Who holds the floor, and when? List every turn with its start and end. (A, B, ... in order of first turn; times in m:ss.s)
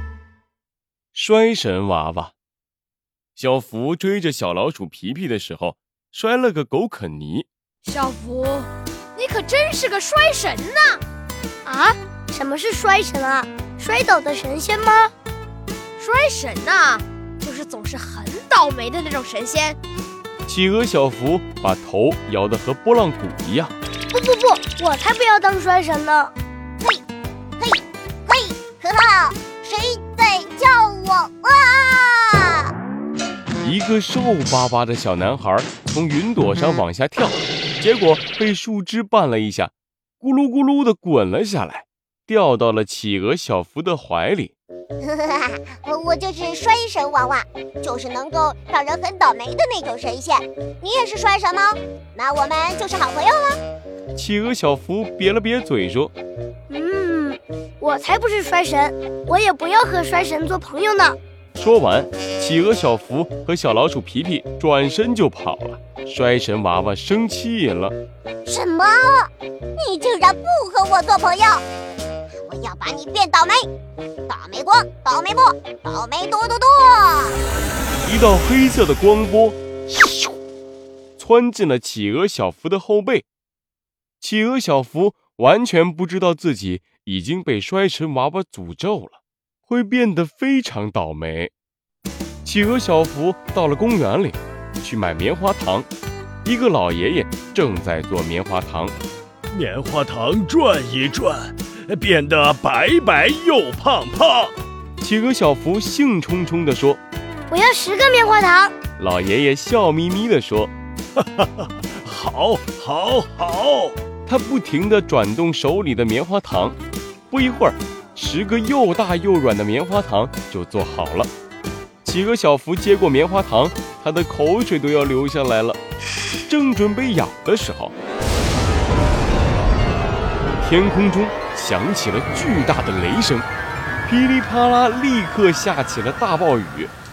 0:01.1-0:02.3 A
0:03.4-0:07.4 A
0:07.8-0:11.0 B
0:11.6-0:15.1 C
0:16.0-0:19.8 B
0:20.4-0:23.7 A
0:24.1-0:26.3 C
0:27.6-0:32.7 D
0:33.6-0:39.7 A
0:40.2-0:44.5 A
0:45.0-0:53.6 D
0:54.2-0:56.1 A
0:56.7-1:01.2 C
1:01.5-1:07.9 A
1:08.4-1:11.6 D
1:12.4-1:13.7 D
1:14.3-1:17.4 D
1:18.0-1:20.3 A
1:21.2-1:23.2 A
1:24.2-1:31.5 A
1:32.4-1:35.9 A
1:36.4-1:38.9 A
1:39.5-1:44.5 E
1:45.0-1:47.0 A
1:47.5-1:48.7 C
1:49.0-1:50.7 A
1:51.2-1:53.9 E
1:54.2-1:56.8 A
1:57.3-2:01.3 A
2:02.0-2:05.8 A
2:06.5-2:07.9 A
2:10.6-2:13.4 A
2:14.0-2:16.9 A